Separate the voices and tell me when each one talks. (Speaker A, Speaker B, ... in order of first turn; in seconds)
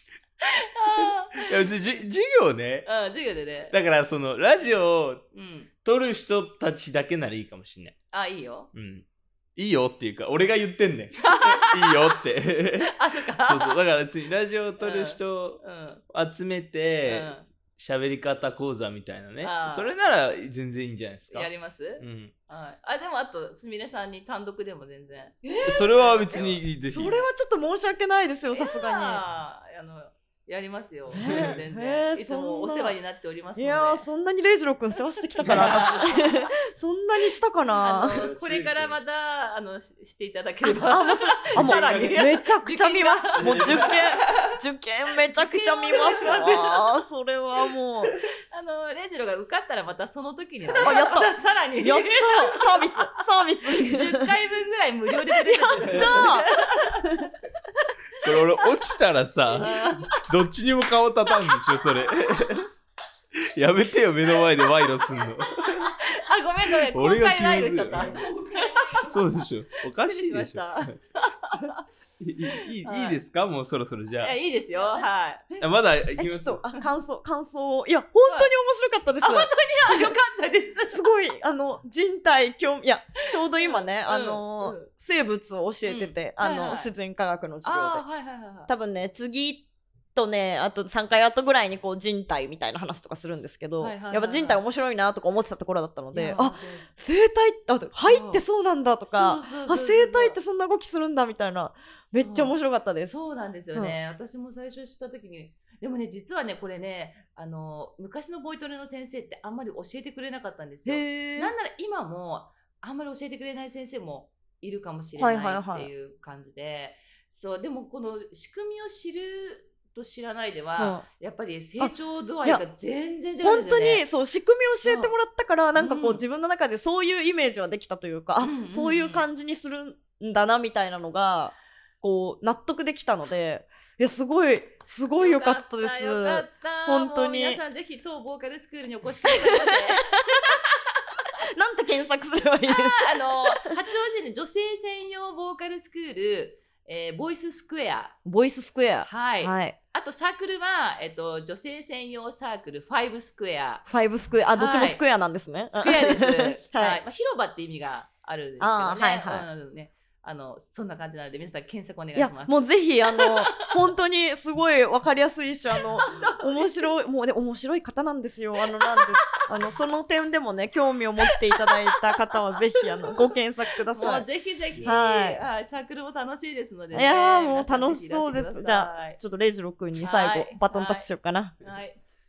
Speaker A: 0.4-1.7, 2.8-3.8, 5.3-5.7, 8.1-8.7, 11.2-12.2, 12.8-13.8, 14.8-16.0, 17.0-17.5, 19.4-19.9, 21.3-26.6, 28.5-34.0, 35.3-36.3, 37.8-44.1, 45.3-47.0, 48.5-57.3, 59.5-60.2, 65.2-71.8, 72.8-73.2, 74.2-75.5, 78.2-78.5, 79.2-81.0, 83.3-84.9, 85.8-86.9, 87.6-88.7, 93.8-94.6, 96.1-96.9, 98.0-98.4, 99.0-100.4, 102.1-124.0, 124.8-125.1, 125.7-126.2, 128.4-129.2, 135.2-141.0, 142.7-148.2, 149.0-153.8, 154.5-155.0, 155.7-163.7, 165.8-166.9, 169.0-169.4, 171.5-173.4, 173.9-179.2, 179.9-181.1, 181.6-182.0
Speaker B: 1.4-2.9, 3.7-5.3, 5.8-8.0, 8.7-9.0, 9.6-22.3, 25.6-27.2, 31.1-31.6, 35.4-36.0, 38.0-39.0, 41.5-42.4, 43.4-44.6, 55.8-56.3, 58.1-62.7, 63.4-66.0, 66.9-68.4, 69.0-70.9, 72.2-74.4, 75.6-76.7
Speaker C: 25.4-29.2, 31.1-33.0, 33.5-38.2, 40.9-48.1, 50.8-54.3, 55.3-57.3, 68.4-69.0, 76.2-80.1, 80.9-88.1, 88.7-103.1, 110.8-111.5, 115.2-115.9, 120.8-121.1, 121.8-122.6, 123.4-137.6, 139.3-140.6, 141.4-143.8, 148.2-149.8, 153.9-157.0, 158.6-159.4, 162.2-175.4, 176.9-181.6